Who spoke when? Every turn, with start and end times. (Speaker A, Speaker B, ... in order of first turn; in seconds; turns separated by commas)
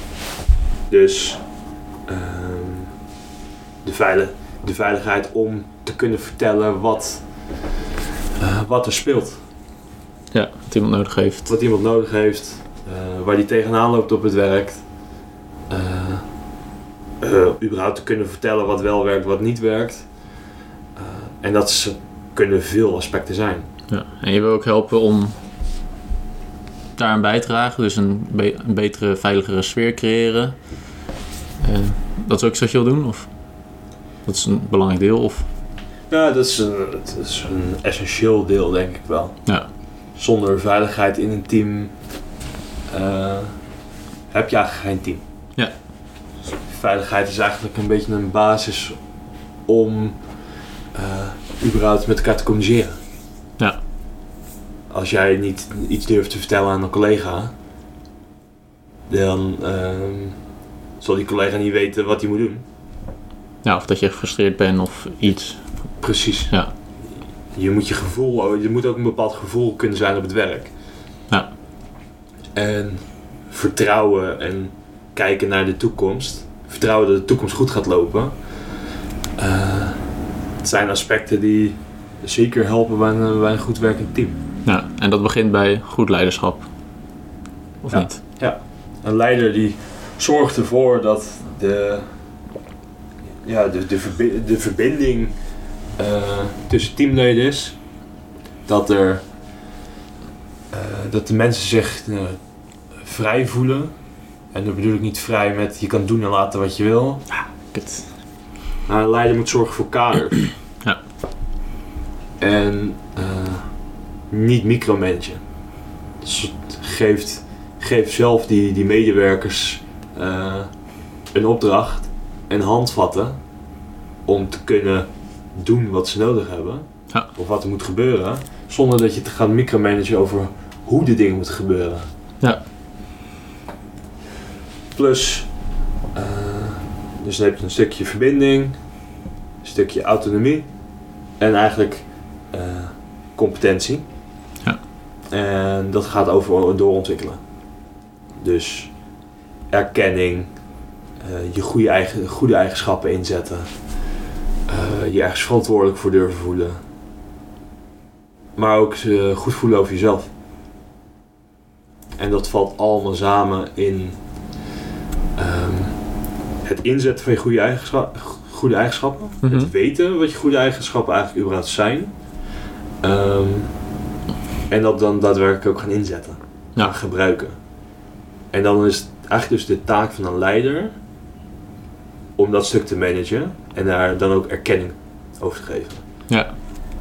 Speaker A: 0.9-3.0, Speaker A: 3.8-7.7, Speaker A: 8.4-9.4, Speaker B: 10.3-11.5, Speaker A: 11.4-16.5, Speaker A: 17.2-23.7, Speaker B: 23.9-25.3, Speaker B: 26.9-31.0, Speaker B: 31.6-35.5, Speaker A: 36.1-42.3, Speaker A: 42.9-45.2, Speaker A: 46.6-53.0, Speaker A: 54.9-57.5, Speaker A: 59.1-62.6, Speaker B: 63.6-66.7, Speaker A: 65.8-70.8, Speaker B: 71.3-71.5, Speaker A: 72.5-78.8, Speaker A: 79.4-84.4, Speaker B: 84.6-86.7, Speaker B: 87.8-88.2, Speaker A: 87.9-92.5, Speaker A: 93.4-98.0, Speaker A: 98.7-99.3, Speaker A: 100.7-107.3, Speaker B: 107.3-108.1, Speaker A: 108.8-110.5, Speaker A: 112.4-123.7, Speaker A: 124.2-132.1, Speaker A: 134.9-139.1, Speaker A: 139.6-144.1, Speaker A: 145.3-154.0, Speaker A: 154.7-156.8, Speaker A: 158.6-160.3, Speaker A: 162.2-164.6, Speaker A: 165.3-172.4, Speaker B: 169.4-169.7, Speaker A: 173.0-173.9, Speaker A: 174.7-177.6, Speaker A: 178.5-180.9, Speaker A: 182.3-186.3, Speaker B: 186.3-186.5